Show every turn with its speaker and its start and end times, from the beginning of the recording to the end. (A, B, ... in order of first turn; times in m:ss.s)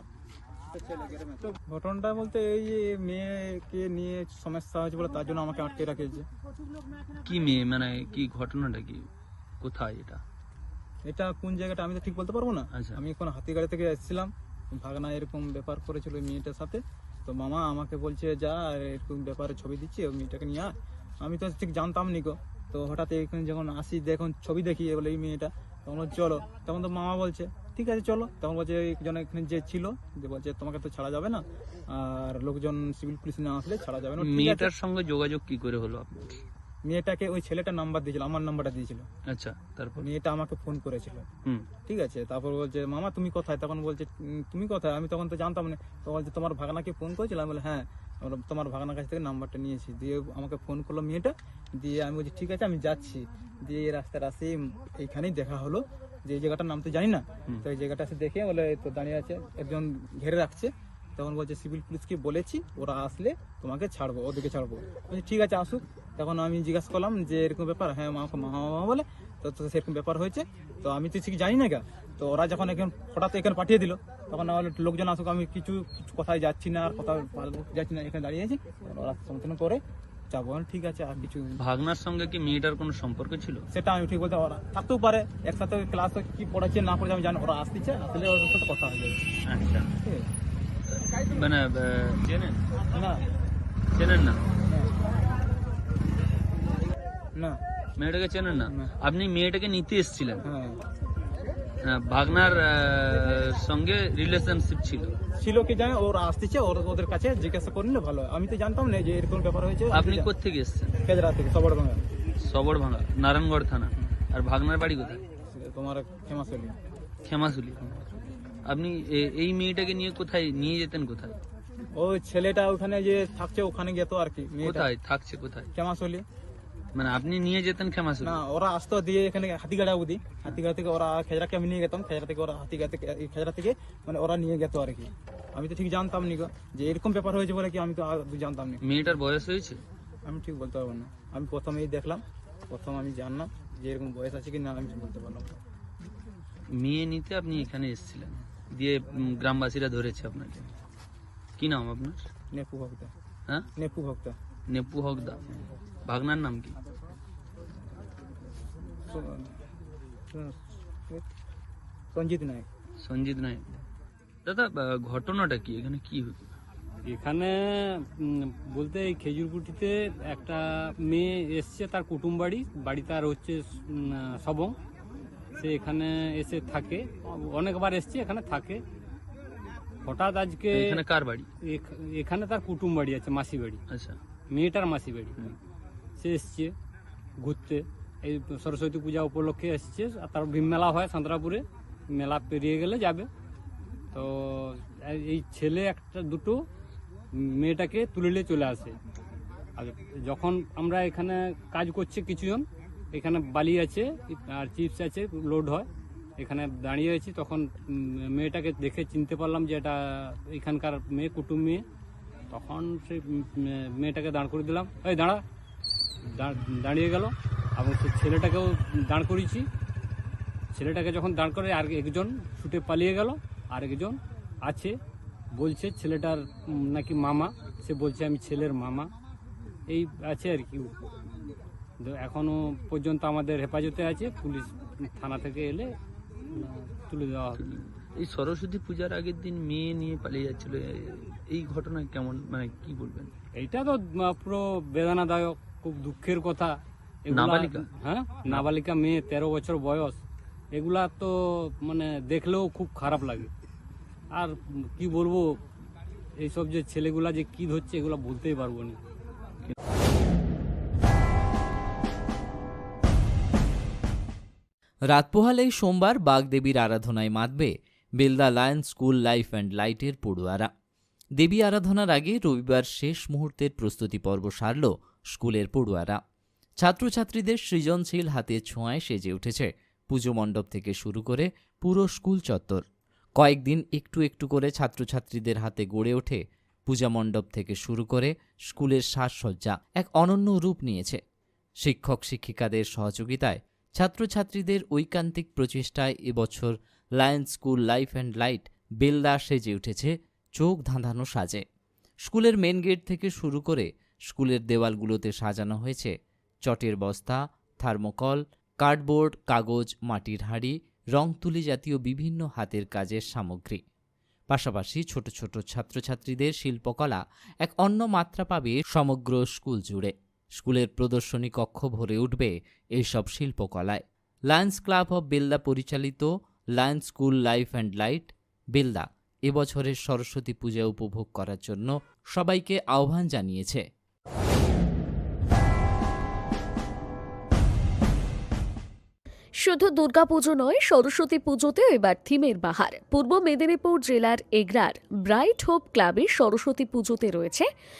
0:00.7-0:06.2 A
0:07.2-0:09.1 B
0:09.6-0:10.2 B
0:11.0-0:20.7 A
0:12.7-0:13.0 B
0:21.2-0:34.7 A
0:34.2-0:36.4 B
0:36.8-0:39.0 A
0:39.2-0:40.1 B
0:40.0-0:41.2 A
0:41.8-1:21.6 A
1:21.2-1:23.6 B
1:23.7-1:29.2 A
1:29.5-1:29.9 B
1:30.0-1:30.2 A
1:31.0-1:32.6 B
1:32.9-1:33.2 A
1:33.9-1:34.4 B
1:34.7-1:34.9 A
1:38.0-1:40.4 B
1:40.4-1:40.8 A
1:41.8-1:45.2 B
1:45.4-1:50.3 A
1:49.9-1:50.9 B
1:51.0-1:52.0 A
1:52.4-1:55.2 B
1:55.5-1:56.7 A
1:57.2-1:58.1 B
1:58.6-2:01.4 B
2:02.0-2:04.9 A
2:04.6-2:05.7 B
2:05.7-2:06.2 A
2:06.9-2:08.4 B
2:08.2-2:18.8 A
2:18.8-2:19.8 B
2:20.2-2:25.6 A
2:26.7-2:30.7 B
2:31.6-2:32.3 B
2:32.5-2:33.1 A
2:33.8-2:34.4 A
2:34.7-2:36.8 B
2:39.1-2:39.6 A
2:40.3-2:41.2 A
2:42.1-2:42.6 A
2:43.0-2:43.7 B
2:44.4-2:46.5 B
2:47.1-2:54.7 C
2:55.6-2:58.8 C
3:00.0-3:01.0 C
3:00.7-3:01.5 B
3:01.7-3:03.8 C
3:03.9-3:04.2 B
3:04.5-3:05.3 C
3:06.2-3:06.7 C
3:07.4-3:13.3 C
3:14.1-3:16.6 C
3:17.4-3:19.0 C
3:19.8-3:31.8 C
3:32.5-3:35.4 C
3:36.3-3:39.6 C
3:40.7-3:44.9 C
3:45.6-3:49.1 C
3:49.9-3:50.9 C
3:52.0-3:55.9 C
3:56.5-3:57.6 C
3:57.6-4:03.3 B
4:03.6-4:06.7 C
4:07.3-4:10.2 C
4:07.3-4:07.9 B
4:10.7-4:13.5 C
4:14.4-4:15.5 C
4:16.4-4:19.0 C
4:25.1-4:30.7 D
4:31.4-4:36.2 D
4:36.8-4:42.8 D
4:43.4-4:51.2 D
4:51.8-5:01.6 D
5:02.2-5:06.1 D
5:06.6-5:13.8 D
5:14.5-5:33.8 D
5:39.6-5:47.7 E